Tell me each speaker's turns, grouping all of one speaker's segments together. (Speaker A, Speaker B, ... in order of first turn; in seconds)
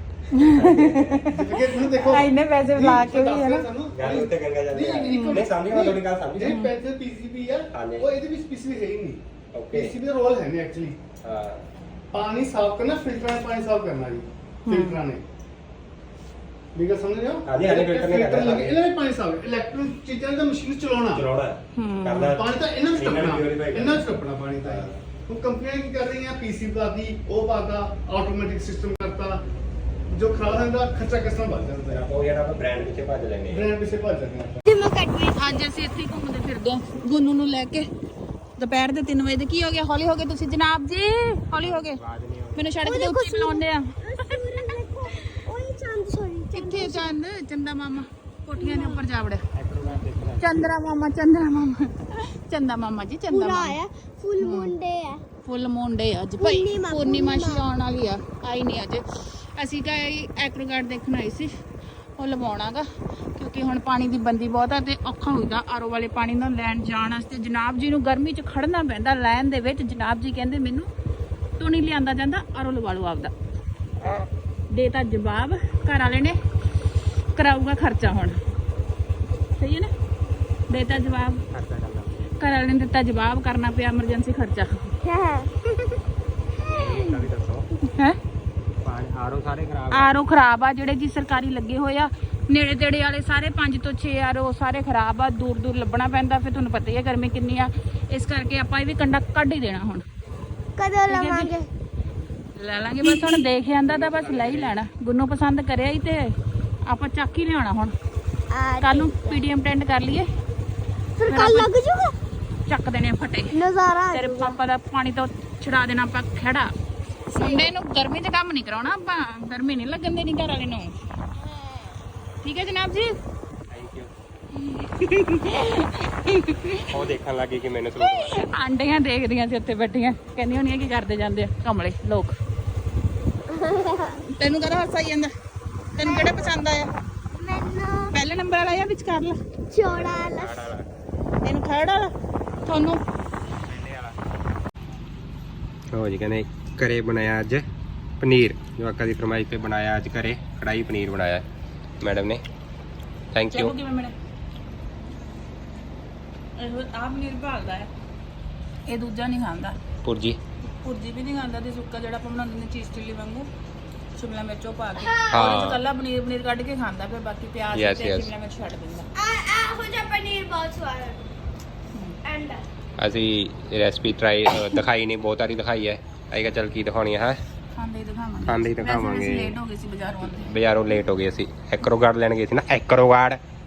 Speaker A: 0.3-1.5, 2.0-3.7, 5.1-5.5, 6.5-6.7, 14.7-15.0, 21.8-22.3, 35.4-37.9, 38.6-42.0, 42.6-43.8, 46.5-49.4, 50.4-53.8, 54.4-54.7, 55.5-61.5, 62.2-62.9, 63.4-70.9, 71.6-73.3, 74.7-76.4, 77.4-78.4, 79.6-79.9, 80.7-81.4, 82.4-84.8, 87.9-88.2, 89.9-100.0, 101.1-101.5, 102.6-106.2, 106.9-107.9, 108.8-110.3, 111.3-111.7, 112.7-113.5, 114.1-116.7, 117.3-120.9, 122.4-123.1, 124.6-126.9, 128.0-132.3, 134.3-135.3, 136.0-136.9, 138.1-139.4, 141.4-142.1, 142.7-143.0, 153.5-154.1, 156.6-157.9, 158.9-159.8, 160.7-163.5, 164.2-169.1, 177.8-180.5
Speaker B: 0.5-1.2, 3.9-6.5, 7.7-8.1, 9.5-9.9, 11.2-11.7, 17.5-18.8, 21.1-24.0, 24.6-24.9, 31.9-33.7, 41.6-42.7, 49.5-50.7, 81.5-82.3, 86.6-87.7, 88.8-90.2, 103.9-104.8, 123.7-124.1, 126.9-128.4, 139.9-140.9, 143.7-144.2, 145.9-147.6, 148.2-151.4, 152.0-152.4, 153.3-153.8, 160.0-160.4, 165.3-165.8, 167.7-168.3, 173.0-177.4, 178.5-179.6, 180.4-183.4
Speaker C: 1.3-9.2, 9.7-11.0, 12.1-15.2, 16.8-21.2, 22.2-29.4, 30.1-32.0, 33.5-34.6
Speaker D: 34.7-35.6, 42.8-47.2, 48.6-49.0, 53.3-55.2, 56.4-57.6, 85.0-86.0, 100.8-101.7, 103.0-103.4, 108.5-109.4, 111.2-112.2, 113.5-114.6, 117.3-117.7, 133.5-134.2, 136.0-136.5, 137.3-138.1, 139.7-140.7, 165.0-165.4, 169.2-171.3, 172.2-172.6